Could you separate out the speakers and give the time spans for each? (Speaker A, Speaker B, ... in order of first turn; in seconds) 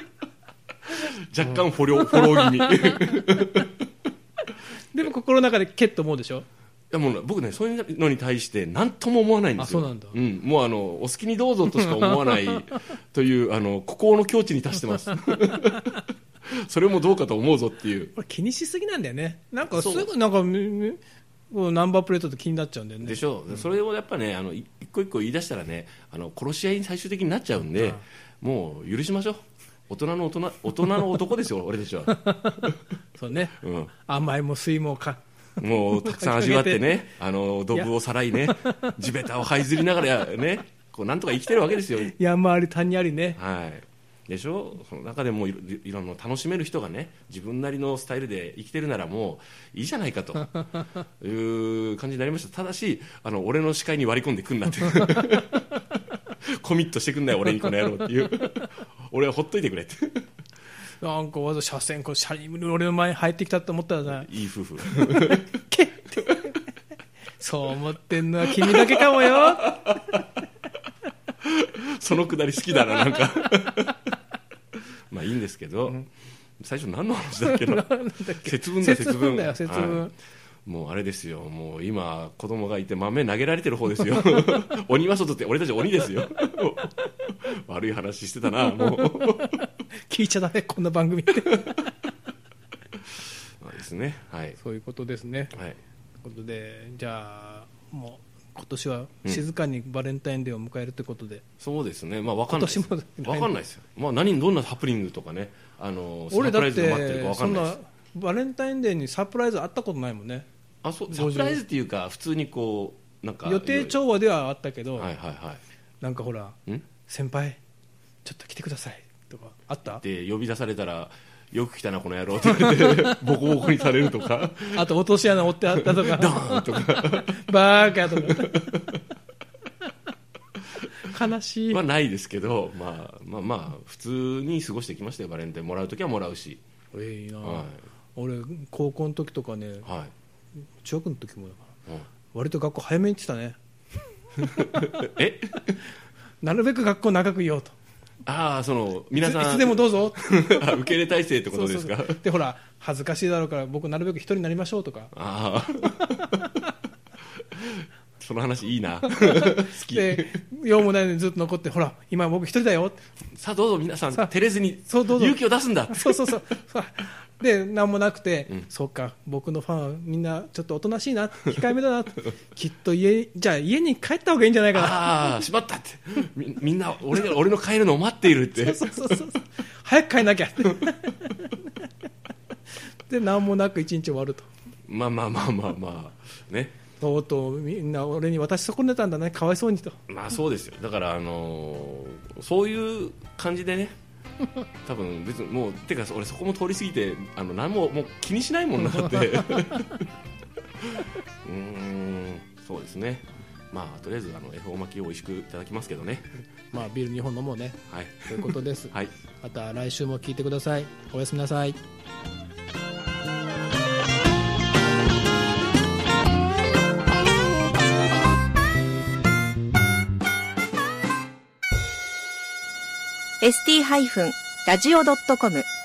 Speaker A: 0.9-3.8, 6.9-18.1, 19.7-20.1, 23.0-32.8, 33.6-33.9, 35.6-42.1, 43.3-50.6, 51.2-55.8, 56.3-60.2, 64.1-65.5, 68.5-70.2, 71.4-74.1, 75.1-76.1, 76.6-80.1, 80.7-89.6, 93.6-94.6, 95.5-95.8, 101.6-107.7, 110.8-114.0, 115.0-115.6, 119.9-125.0, 125.7-129.0, 131.7-136.6, 137.4-137.8, 139.8-140.1, 144.4-145.8, 148.2-152.2, 155.1-156.3, 157.4-160.4, 163.3-166.4, 174.7-179.0, 184.9-186.8, 190.1-193.9, 194.8-200.1, 200.8-206.3, 207.9-209.1
Speaker B: 1.4-3.2, 4.9-6.5, 9.6-10.1, 11.7-12.6, 18.1-23.2, 27.6-28.0, 32.1-37.0, 37.7-39.2, 42.0-43.4, 61.0-64.3, 64.9-66.6, 67.4-69.9, 77.4-80.1, 88.6-91.9, 94.6-95.5, 96.2-101.4, 102.5-103.5, 106.3-110.5, 111.1-111.6, 113.4-115.1, 116.0-117.6, 118.2-120.0, 122.5-123.2, 124.7-128.9, 131.0-131.8, 136.9-139.9, 140.8-141.7, 142.3-143.6, 144.5-145.0, 146.4-147.7, 149.2-150.8, 151.5-155.1, 155.9-156.5, 159.1-163.0, 164.9-175.4, 178.5-181.7, 183.0-184.5, 187.0-190.0, 199.0-199.7, 206.7-211.8
Speaker C: 223.4-225.7